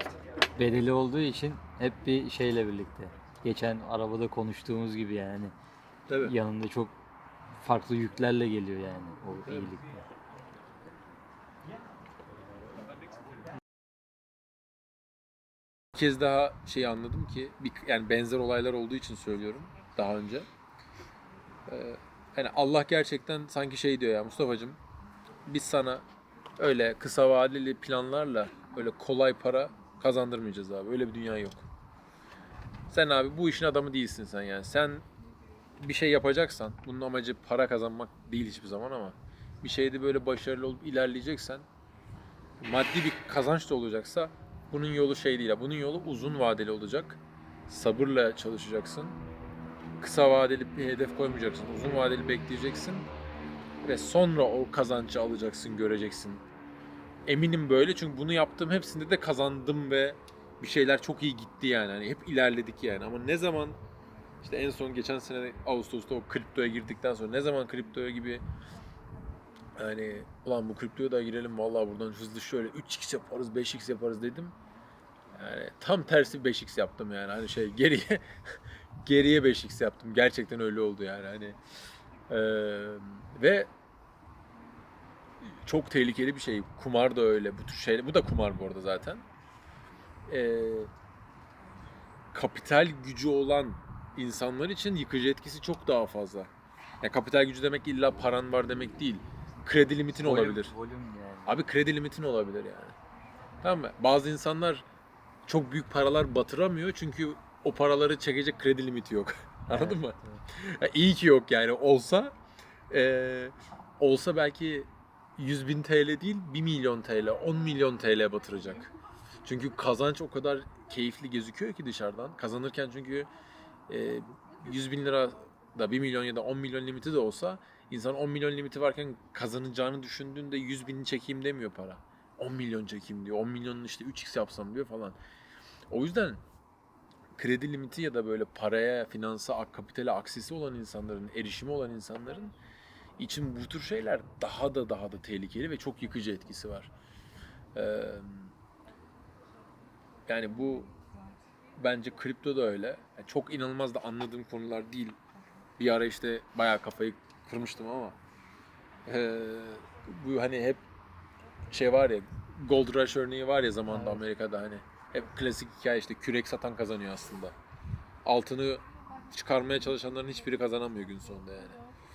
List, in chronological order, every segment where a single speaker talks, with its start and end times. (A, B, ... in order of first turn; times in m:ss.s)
0:00.6-0:05.5 A
0:06.1-0:06.3 B
0:06.2-0:06.9 A
0:07.6-0:10.0 A
0:09.4-0:09.7 B
0:15.9-0:20.5 B
0:21.7-0:24.8 B
0:25.4-0:26.0 B
0:26.6-0:31.6 B
0:32.9-0:35.0 B
0:35.8-0:41.6 B
0:42.6-0:49.2 B
0:50.0-0:53.1 B
0:53.8-0:56.4 B
0:57.2-1:03.8 B
1:04.4-1:08.4 B
1:09.8-1:14.6 B
1:15.3-1:21.6 B
1:22.3-1:23.7 B
1:25.4-1:29.2 B
1:30.3-1:30.9 B
1:32.3-1:36.5 B
1:37.0-1:40.7 B
1:40.1-1:41.6 A
1:41.5-1:42.9 B
1:43.6-1:44.8 B
1:45.5-1:52.3 B
1:49.7-1:50.4 A
1:52.9-1:58.9 B
1:59.4-2:03.3 B
2:03.9-2:15.2 B
2:15.9-2:16.4 B
2:17.4-2:22.5 B
2:23.2-2:26.9 B
2:27.7-2:28.5 B
2:30.3-2:30.9 B
2:31.8-2:35.2 B
2:35.8-2:38.2 B
2:39.0-2:40.8 B
2:41.7-2:47.5 B
2:43.8-2:44.3 A
2:48.2-2:51.8 B